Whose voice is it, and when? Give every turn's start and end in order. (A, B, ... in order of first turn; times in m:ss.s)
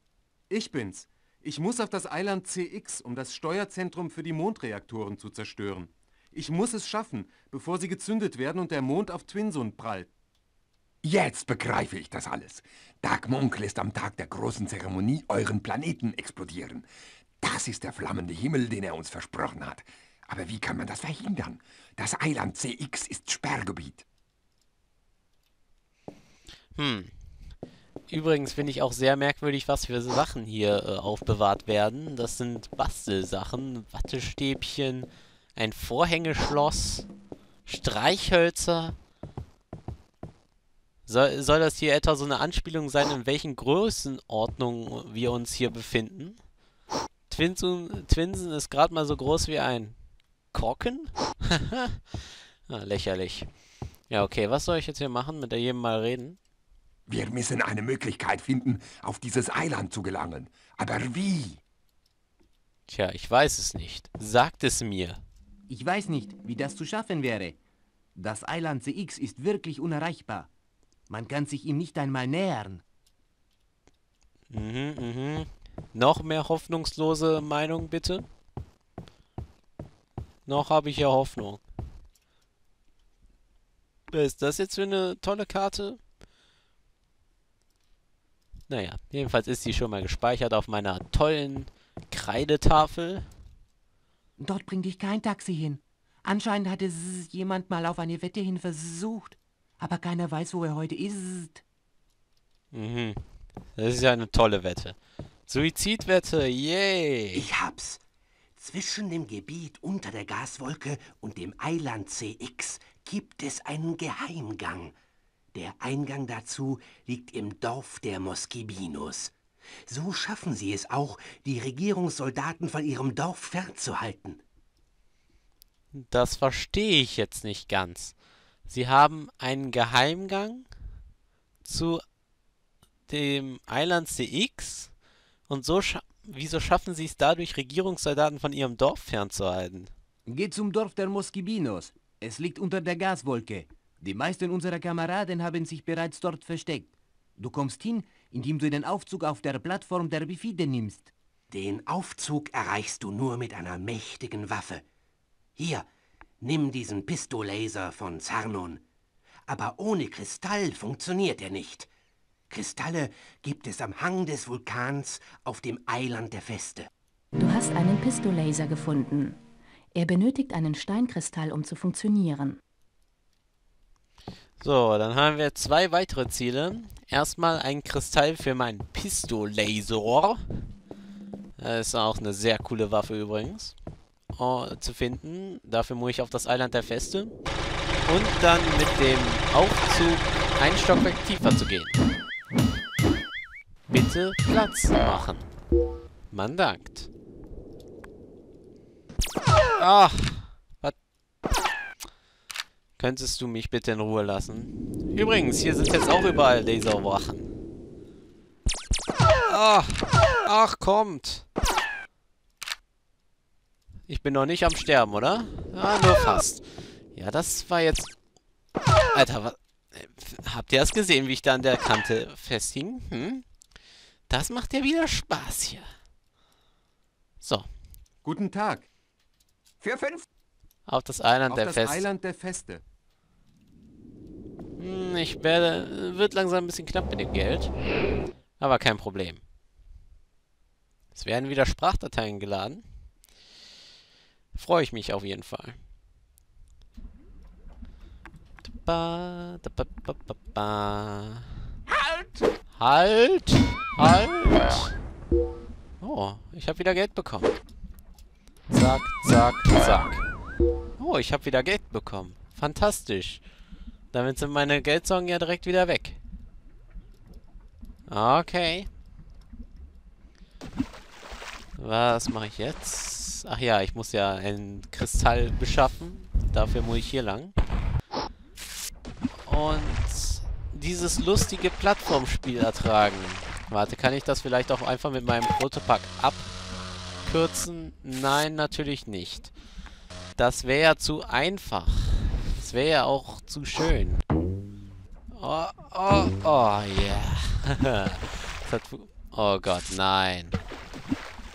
0:00.5-0:10.1 A
0:11.0-0:16.9 B
0:17.4-0:24.0 B
0:26.8-0:27.1 C
0:28.1-0:37.1 C
0:37.6-0:39.0 C
0:41.1-0:46.4 C
0:47.3-0:50.0 C
0:50.5-0:52.2 C
0:52.7-0:53.5 C
0:54.1-0:56.4 C
0:57.1-1:01.6 B
1:02.9-1:05.2 C
1:05.7-1:07.6 D
1:08.2-1:10.5 D
1:11.1-1:12.8 D
1:14.5-1:18.3 C
1:20.4-1:21.6 C
1:24.1-1:26.0 C
1:28.7-1:33.3 C
1:34.4-1:41.6 D
1:42.7-1:43.2 C
1:43.8-1:47.5 C
1:47.3-1:48.0 E
1:48.6-1:54.9 E
1:55.5-1:59.3 E
1:59.9-2:04.4 E
2:05.9-2:08.1 C
2:08.7-2:10.7 C
2:11.6-2:12.0 C
2:13.1-2:14.9 C
2:15.5-2:19.9 C
2:20.3-2:31.1 D
2:31.5-2:34.8 E
2:35.6-2:35.9 E
2:36.4-2:38.8 E
2:39.5-2:41.9 E
2:42.5-2:46.9 E
2:47.4-2:49.4 F
2:49.9-2:52.6 F
2:54.6-3:00.4 C
3:01.6-3:03.7 C
3:04.3-3:07.3 C
3:08.0-3:12.0 C
3:13.9-3:15.5 C
3:16.3-3:17.1 C
3:19.8-3:20.9 C
3:23.0-3:27.5 C
3:29.5-3:31.4 C
3:34.1-3:38.1 C
3:39.1-3:43.4 C
3:44.3-3:45.9 C
3:47.4-3:47.7 C
3:48.2-3:48.9 A
3:49.8-3:50.2 B
3:50.9-3:52.0 C
3:51.5-3:52.8 A
3:54.8-3:57.7 C
3:58.6-3:59.4 C
4:01.1-4:02.8 C
4:04.5-4:05.8 C
4:08.7-4:11.4 C
4:12.8-4:14.9 C
4:16.0-4:17.6 C
4:18.7-4:20.2 C
4:21.0-4:23.4 C
4:24.1-4:26.2 C
4:28.1-4:28.9 C
4:31.8-4:37.5 C
4:39.4-4:46.5 C
4:47.2-4:49.5 C
4:50.4-4:54.2 C
4:55.3-5:00.6 C